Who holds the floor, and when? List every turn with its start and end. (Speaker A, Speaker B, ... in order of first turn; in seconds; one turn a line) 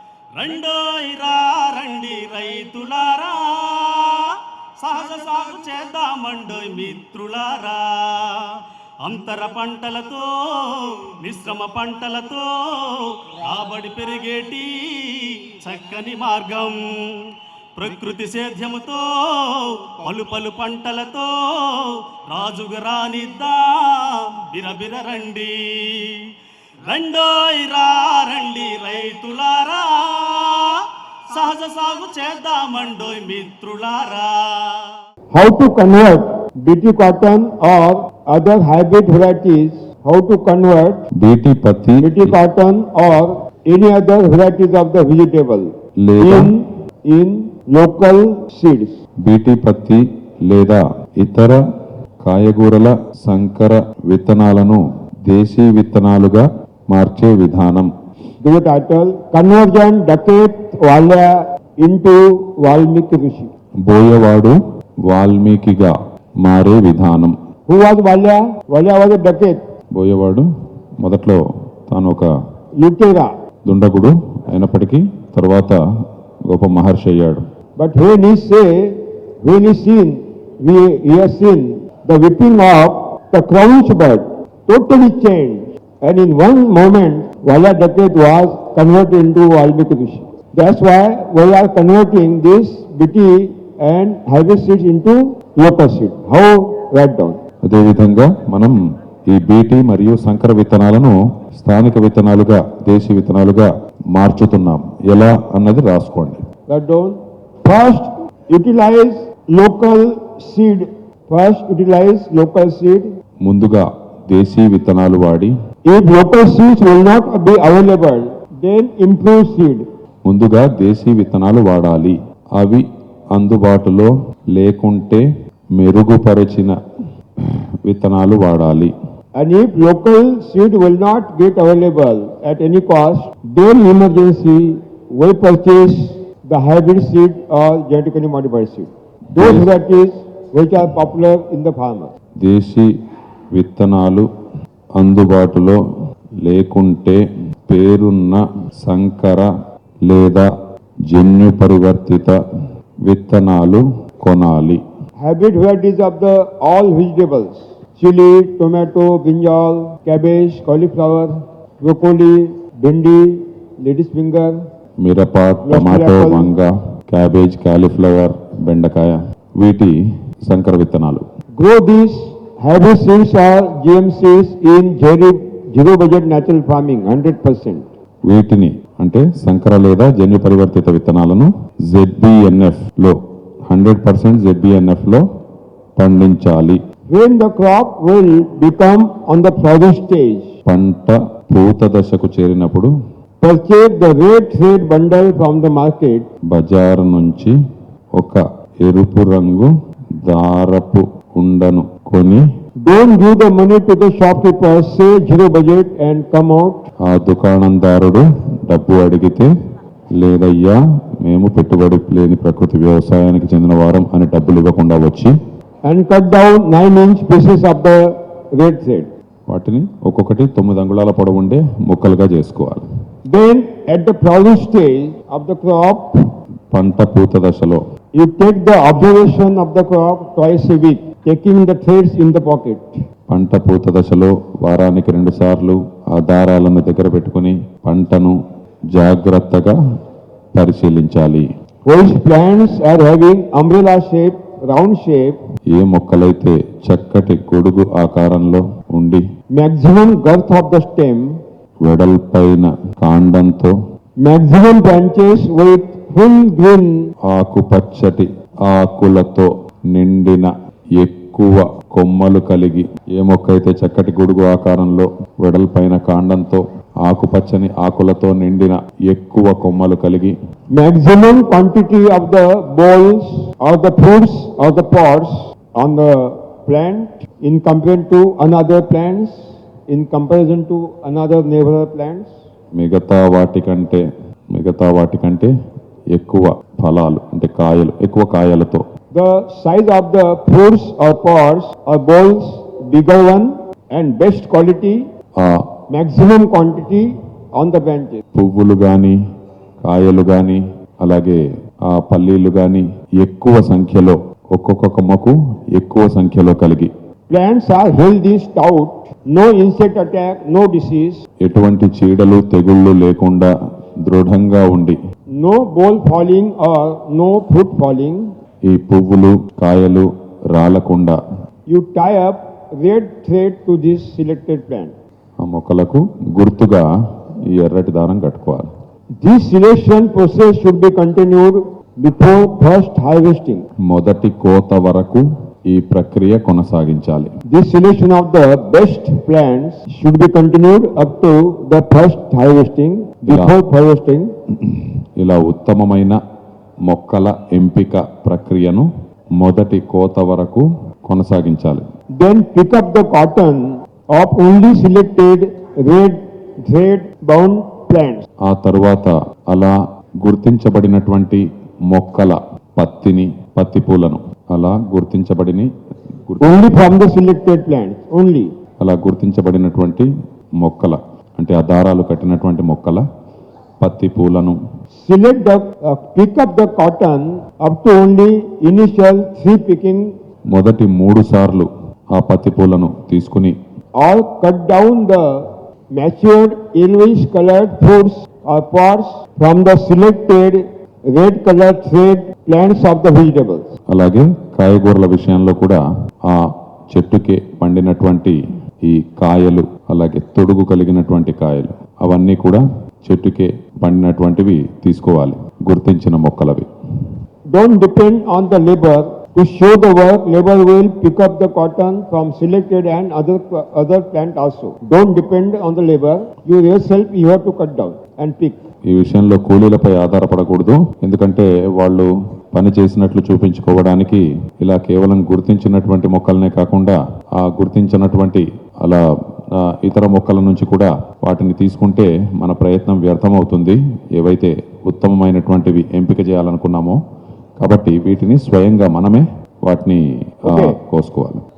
Speaker A: 0.4-26.3
Speaker A: 26.9-34.9
Speaker B: 35.3-41.0
Speaker C: 41.2-42.4
Speaker B: 42.0-49.0
Speaker C: 46.0-46.5
Speaker C: 49.2-51.6
Speaker C: 52.2-57.9
Speaker B: 58.4-63.5
Speaker C: 63.9-64.5
Speaker C: 65.1-67.3
Speaker B: 67.7-69.6
Speaker C: 70.0-70.5
Speaker C: 71.0-72.3
Speaker B: 72.8-73.3
Speaker C: 73.7-75.8
Speaker C: 76.5-77.4
Speaker B: 77.8-97.4
Speaker C: 97.7-106.4
Speaker B: 106.7-113.1
Speaker C: 113.4-115.5
Speaker B: 115.9-119.9
Speaker C: 120.2-125.2
Speaker C: 125.8-126.8
Speaker C: 127.9-128.9
Speaker B: 129.4-142.1
Speaker C: 139.4-139.7
Speaker C: 142.4-142.9
Speaker C: 143.6-144.3
Speaker C: 145.0-145.8
Speaker C: 146.4-149.5
Speaker C: 150.1-150.5
Speaker C: 151.1-152.3
Speaker C: 153.1-154.8
Speaker B: 155.2-164.6
Speaker C: 165.0-169.9
Speaker B: 165.7-166.5
Speaker C: 170.5-171.2
Speaker B: 171.6-177.9
Speaker C: 178.3-183.2
Speaker C: 183.7-185.2
Speaker C: 186.0-186.8
Speaker B: 187.1-190.5
Speaker C: 190.7-192.9
Speaker B: 193.4-196.3
Speaker C: 196.5-197.5
Speaker C: 198.2-199.7
Speaker C: 200.2-202.4
Speaker B: 202.8-206.8
Speaker C: 207.1-209.5
Speaker C: 210.2-215.3
Speaker B: 215.8-219.1
Speaker C: 219.5-222.8
Speaker B: 223.3-226.2
Speaker C: 226.7-227.8
Speaker B: 228.2-232.9
Speaker C: 233.3-238.4
Speaker C: 238.9-239.8
Speaker C: 240.6-241.5
Speaker B: 241.9-245.4
Speaker C: 245.7-249.2
Speaker B: 249.6-251.4
Speaker C: 251.8-253.7
Speaker B: 254.2-257.1
Speaker C: 257.3-270.4
Speaker B: 270.7-282.3
Speaker C: 282.8-284.0
Speaker C: 284.5-285.5
Speaker C: 286.1-288.8
Speaker B: 289.1-295.1
Speaker B: 295.9-298.2
Speaker C: 298.4-299.2
Speaker C: 299.8-306.9
Speaker B: 307.3-311.2
Speaker C: 311.4-313.5
Speaker C: 314.0-315.0
Speaker B: 315.4-318.3
Speaker C: 318.7-321.2
Speaker B: 321.7-324.9
Speaker C: 325.4-326.9
Speaker C: 327.5-328.7
Speaker B: 329.2-333.7
Speaker C: 333.9-337.3
Speaker B: 337.5-344.3
Speaker C: 343.3-343.5
Speaker C: 344.6-346.2
Speaker C: 346.9-351.9
Speaker B: 352.2-358.2
Speaker C: 358.5-365.7
Speaker C: 366.3-366.8
Speaker B: 366.4-368.5
Speaker C: 368.8-370.1
Speaker C: 370.6-373.0
Speaker C: 373.8-374.6
Speaker B: 375.0-380.1
Speaker C: 380.5-383.6
Speaker B: 384.0-393.7
Speaker C: 393.9-406.7
Speaker B: 407.5-418.6
Speaker C: 418.9-429.0
Speaker C: 429.6-437.0
Speaker C: 437.6-441.4
Speaker B: 440.4-440.8